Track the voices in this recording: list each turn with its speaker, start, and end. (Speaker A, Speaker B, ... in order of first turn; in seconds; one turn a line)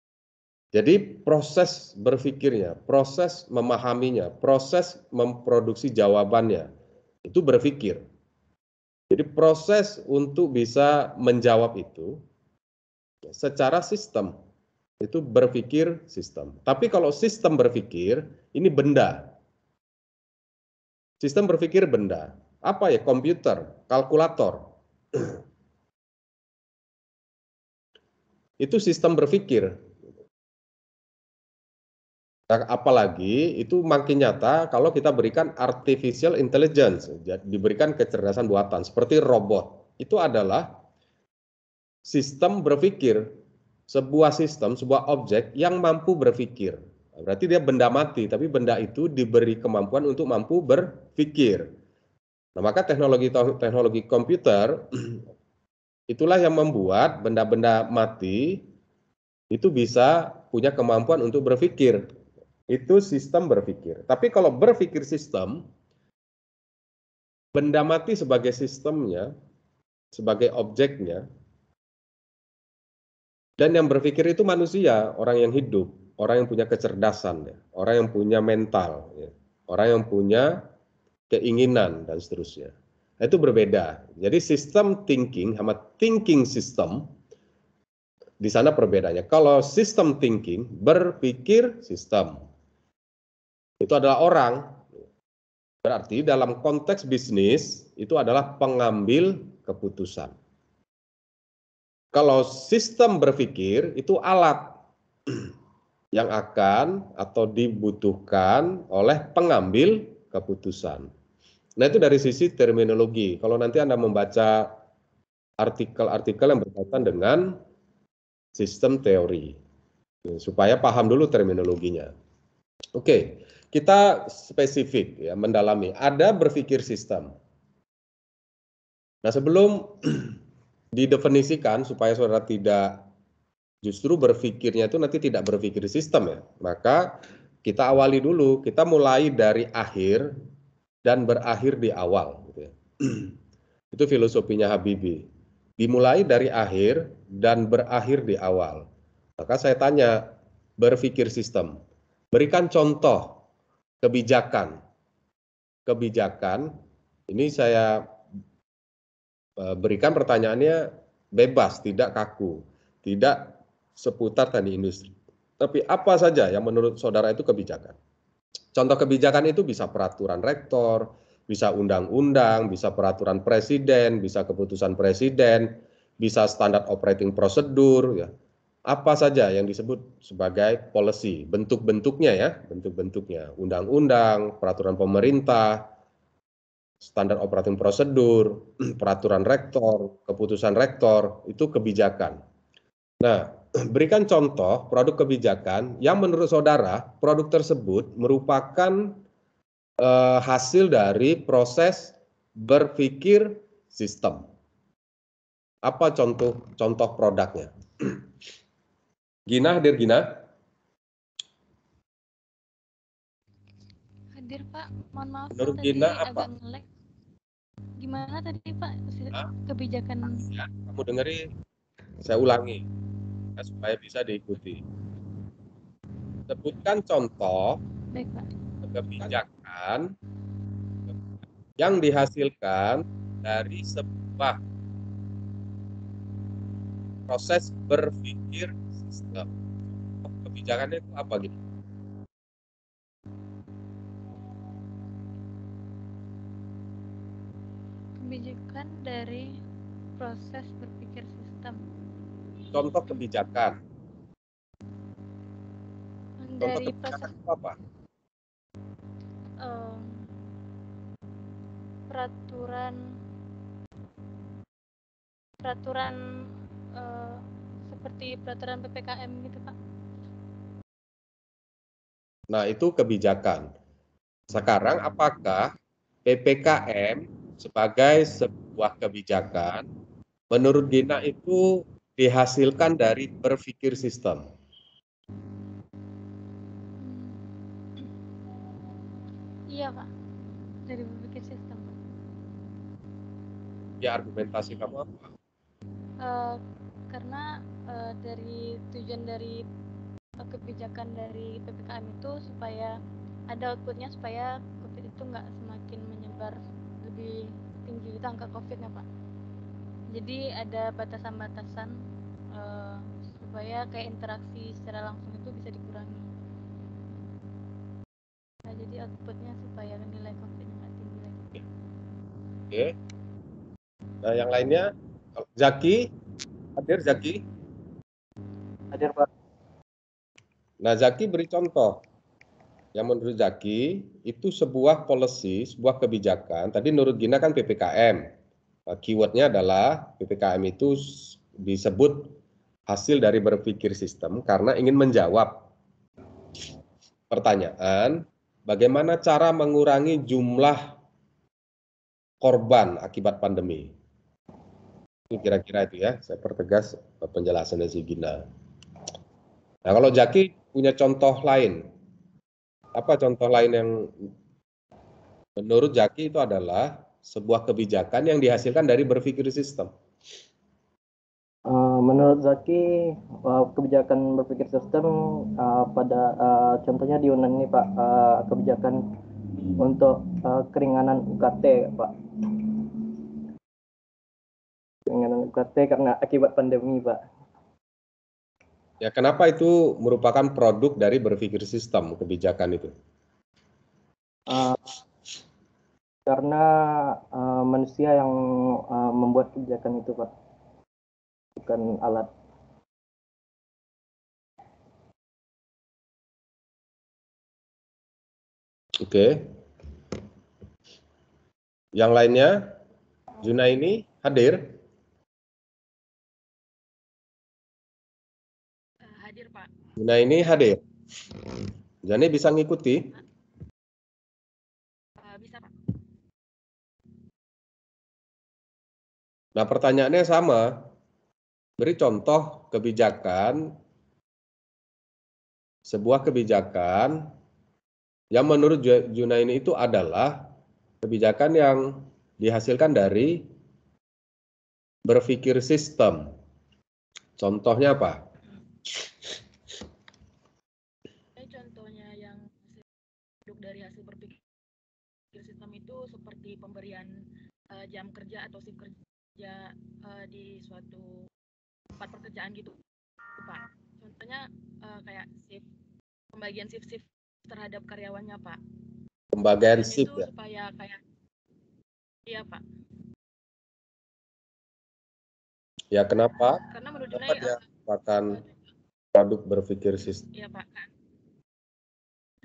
Speaker A: 0.7-6.7
Speaker A: 7.2-8.0
Speaker A: 9.1-12.2
Speaker A: 13.3-14.3
Speaker A: 15.0-19.3
Speaker A: 21.2-24.6
Speaker A: 28.6-29.7
Speaker A: 32.5-40.7
Speaker A: 42.1-43.3
Speaker A: 43.9-51.7
Speaker A: 52.6-55.2
Speaker A: 56.1-58.6
Speaker A: 59.5-62.0
Speaker A: 62.7-65.6
Speaker A: 67.5-69.3
Speaker A: 70.1-71.2
Speaker A: 73.6-80.6
Speaker A: 81.3-87.1
Speaker A: 88.4-92.4
Speaker A: 93.8-94.9
Speaker A: 95.8-100.3
Speaker A: 102.1-104.7
Speaker A: 106.2-111.1
Speaker A: 111.8-114.7
Speaker A: 115.6-117.5
Speaker A: 118.6-119.6
Speaker A: 120.3-122.1
Speaker A: 123.0-127.3
Speaker A: 129.2-130.3
Speaker A: 130.9-133.0
Speaker A: 133.8-140.3
Speaker A: 141.1-143.3
Speaker A: 143.9-145.2
Speaker A: 145.8-148.8
Speaker A: 149.4-150.3
Speaker A: 150.8-151.8
Speaker A: 152.3-153.4
Speaker A: 154.0-154.8
Speaker A: 155.9-156.7
Speaker A: 157.3-158.1
Speaker A: 159.6-168.0
Speaker A: 168.8-178.3
Speaker A: 178.9-185.8
Speaker A: 187.0-192.4
Speaker A: 193.2-199.2
Speaker A: 200.0-204.4
Speaker A: 205.8-208.1
Speaker A: 209.5-210.3
Speaker B: 214.3-216.9
Speaker A: 215.6-216.5
Speaker B: 218.0-220.4
Speaker A: 220.4-221.5
Speaker A: 222.2-222.8
Speaker A: 223.6-224.8
Speaker A: 226.5-227.8
Speaker B: 228.1-228.5
Speaker A: 228.8-230.1
Speaker A: 231.8-234.6
Speaker A: 237.3-239.5
Speaker A: 240.2-241.6
Speaker B: 248.2-249.6
Speaker B: 250.2-251.8
Speaker A: 252.7-253.8
Speaker B: 256.4-257.3
Speaker A: 256.6-257.8
Speaker B: 259.6-260.3
Speaker B: 262.1-263.0
Speaker B: 265.6-266.2
Speaker B: 266.9-269.8
Speaker A: 272.5-273.7
Speaker A: 274.5-275.7
Speaker A: 276.3-279.9
Speaker A: 280.5-284.4
Speaker B: 287.0-287.4
Speaker B: 289.7-290.1
Speaker B: 290.9-292.0
Speaker A: 294.0-295.3
Speaker B: 296.2-299.6
Speaker B: 300.4-303.0
Speaker B: 303.5-309.1
Speaker B: 310.1-311.9
Speaker B: 312.5-316.3
Speaker B: 318.7-321.6
Speaker A: 324.2-326.1
Speaker A: 326.8-327.4
Speaker C: 328.9-329.3
Speaker A: 330.8-332.0
Speaker A: 333.0-338.2
Speaker A: 338.9-342.3
Speaker A: 342.9-345.6
Speaker A: 347.3-350.8
Speaker A: 352.4-353.9
Speaker A: 355.3-358.4
Speaker A: 359.9-361.8
Speaker A: 362.9-364.1
Speaker A: 365.6-369.9
Speaker C: 371.7-379.0
Speaker C: 379.6-382.1
Speaker C: 385.1-387.2
Speaker A: 389.0-392.9
Speaker C: 394.5-395.0
Speaker C: 396.3-398.4
Speaker C: 398.9-400.3
Speaker C: 401.6-402.3
Speaker A: 409.0-409.4
Speaker A: 412.0-412.7
Speaker A: 413.4-414.7
Speaker D: 419.1-419.7
Speaker A: 420.0-420.8
Speaker A: 422.1-423.1
Speaker D: 425.2-425.7
Speaker A: 429.6-430.7
Speaker A: 431.8-433.7
Speaker A: 435.9-437.2
Speaker A: 438.3-440.4
Speaker A: 441.0-443.4
Speaker A: 445.1-446.3
Speaker A: 447.4-448.2
Speaker D: 451.4-452.8
Speaker D: 453.5-454.4
Speaker D: 455.3-457.1
Speaker D: 457.7-461.1
Speaker D: 462.0-462.8
Speaker D: 463.4-465.6
Speaker D: 466.4-468.6
Speaker A: 469.3-470.3
Speaker D: 469.7-471.0
Speaker D: 472.3-472.6
Speaker A: 475.9-478.4
Speaker D: 476.6-477.7
Speaker A: 479.2-480.2
Speaker D: 480.3-480.9